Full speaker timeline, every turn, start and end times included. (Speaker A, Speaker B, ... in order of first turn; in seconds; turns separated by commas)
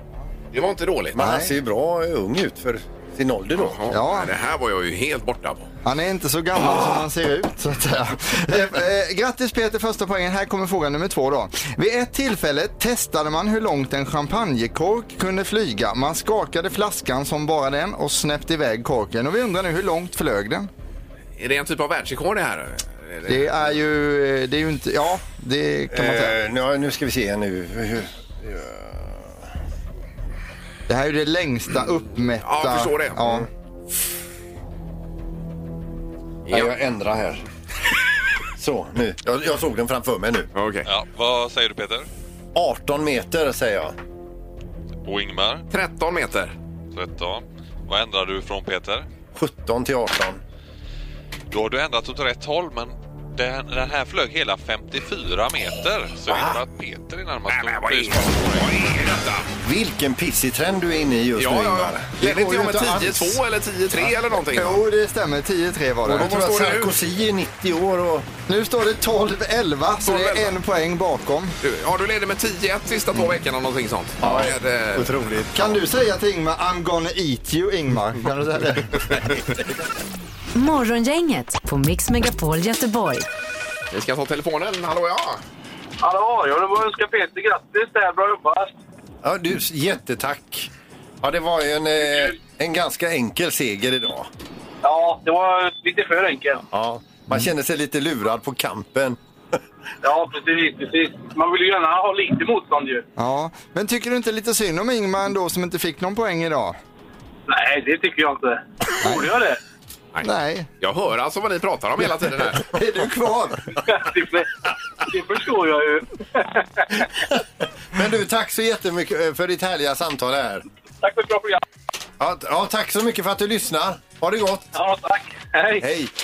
Speaker A: 0.5-1.2, Speaker B: 1.1-3.8, Speaker C: 1.2-1.5, Speaker A: 3.5-5.7, Speaker C: 3.9-4.3, Speaker C: 5.8-20.7, Speaker A: 21.4-23.5, Speaker C: 23.3-26.4, Speaker B: 25.9-29.4, Speaker C: 30.9-33.5, Speaker A: 32.4-33.4, Speaker B: 36.5-37.4, Speaker B: 38.6-40.5, Speaker A: 40.5-40.9, Speaker D: 40.9-42.1, Speaker B: 42.5-44.0, Speaker D: 45.0-45.7, Speaker A: 45.7-46.5, Speaker D: 46.9-49.1, Speaker B: 49.4-50.4, Speaker D: 51.5-58.7, Speaker B: 56.3-56.6, Speaker A: 57.5-59.5, Speaker B: 59.6-63.4, Speaker A: 61.4-64.8, Speaker C: 64.4-66.3, Speaker B: 66.0-68.3, Speaker A: 66.1-66.9, Speaker C: 68.5-71.6, Speaker A: 70.0-70.5, Speaker A: 71.6-75.2, Speaker B: 74.2-75.8, Speaker C: 75.5-79.2, Speaker E: 80.5-83.3, Speaker A: 83.9-85.4, Speaker F: 86.0-88.8, Speaker B: 89.2-94.3, Speaker F: 94.8-96.7, Speaker B: 96.7-99.2, Speaker F: 100.0-103.0, Speaker C: 103.2-106.8, Speaker F: 107.5-109.6, Speaker C: 109.0-109.3, Speaker C: 110.2-110.7, Speaker A: 110.8-112.7, Speaker C: 112.6-113.8, Speaker F: 113.9-117.1, Speaker B: 117.9-120.7, Speaker F: 121.0-121.6, Speaker B: 122.2-124.7, Speaker F: 124.7-125.9, Speaker B: 125.8-126.1